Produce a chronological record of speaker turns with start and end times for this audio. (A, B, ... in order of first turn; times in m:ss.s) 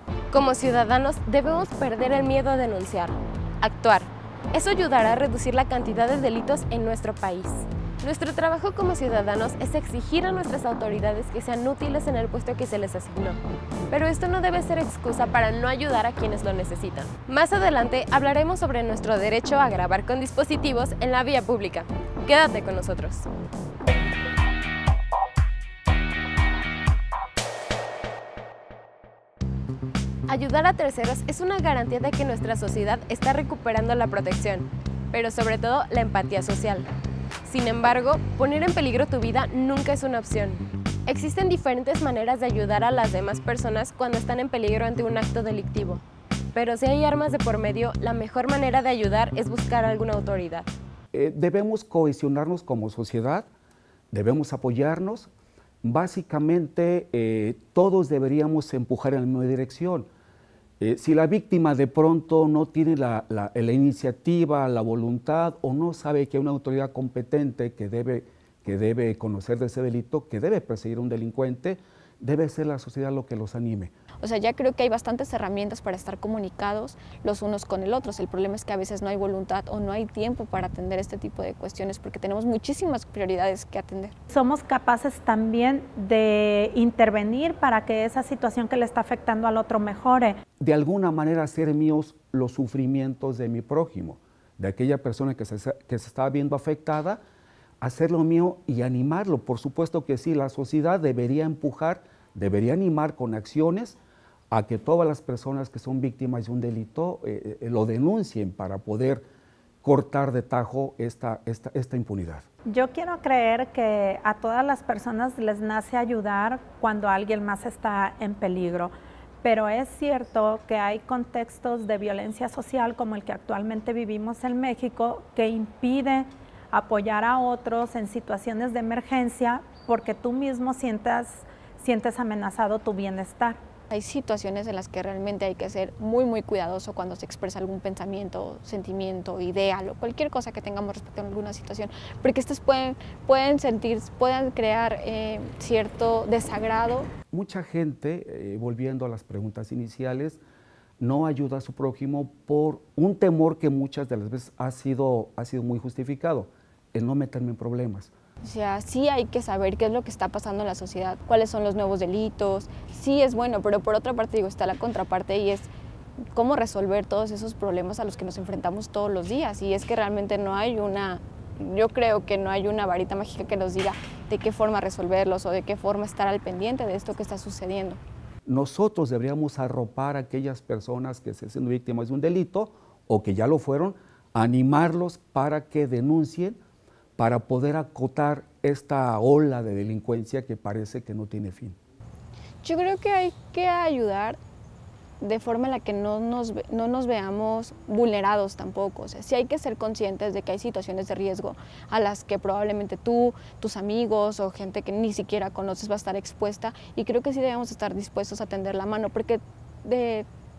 0:00.3-0:23.3 A
0:30.3-0:36.9 A
0:37.4-0:50.7 A
0:51.1-0:53.5 B
0:54.1-0:55.3 B
0:55.8-1:00.1 B
1:00.8-1:13.9 B
1:14.2-1:24.1 C
1:24.3-1:30.4 D
1:30.6-1:37.2 B
1:37.8-1:44.0 B
1:44.5-1:49.2 B
1:49.8-1:52.4 B
1:52.6-2:13.6 D
2:13.9-2:27.1 C
2:27.3-2:30.4 B
2:31.0-2:38.1 B
2:38.4-2:45.7 C
2:46.3-2:58.0 C
2:58.4-3:06.6 B
3:07.2-3:11.8 B
3:12.6-3:14.4 C
3:15.2-3:30.3 C